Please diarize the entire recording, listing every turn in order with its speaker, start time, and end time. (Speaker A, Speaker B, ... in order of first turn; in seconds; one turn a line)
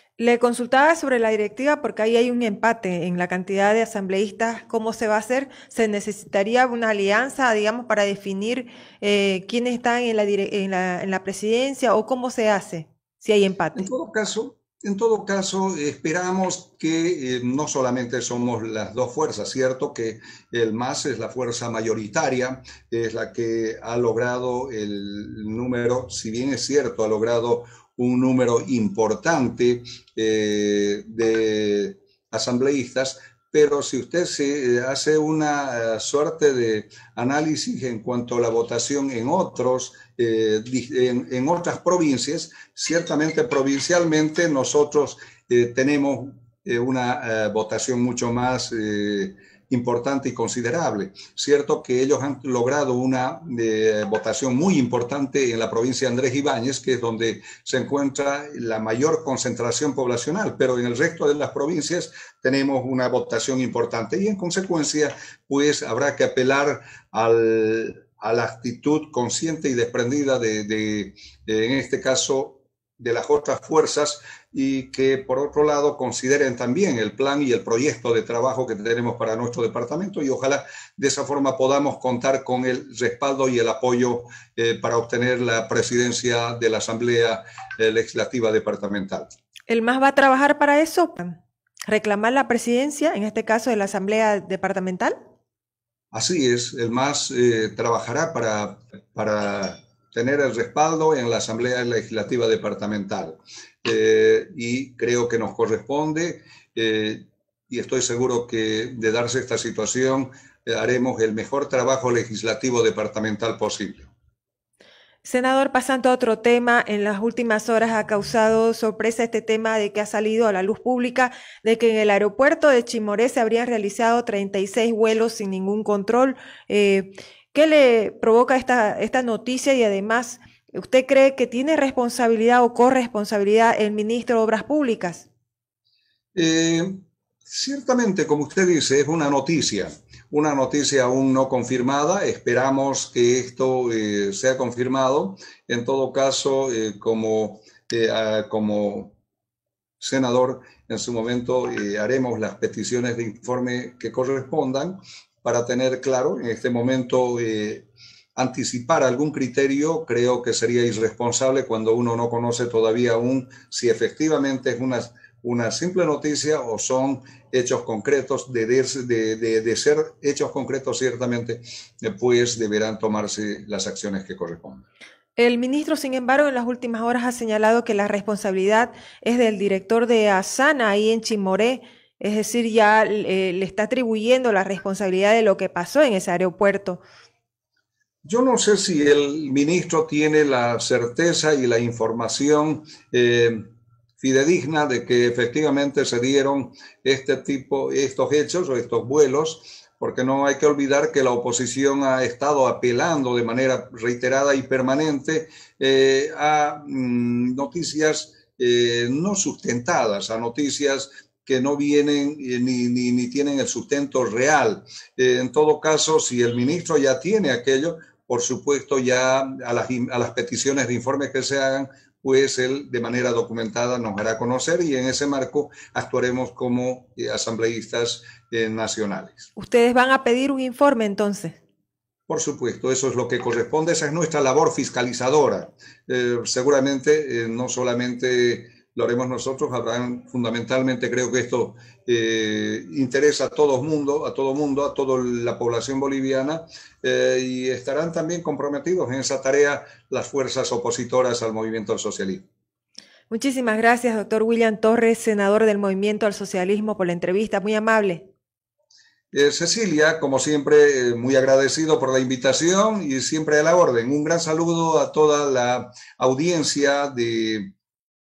Speaker A: 0.2-13.9
Speaker B: 13.7-89.3
Speaker A: 89.7-95.2
Speaker B: 96.1-114.1
Speaker A: 115.2-135.3
Speaker B: 136.3-149.1
Speaker B: 150.0-174.8
Speaker A: 175.4-187.0
Speaker B: 188.2-193.6
Speaker B: 194.2-229.5
Speaker A: 229.6-231.6
Speaker B: 232.3-252.4
Speaker A: 253.3-258.3
Speaker B: 259.3-267.7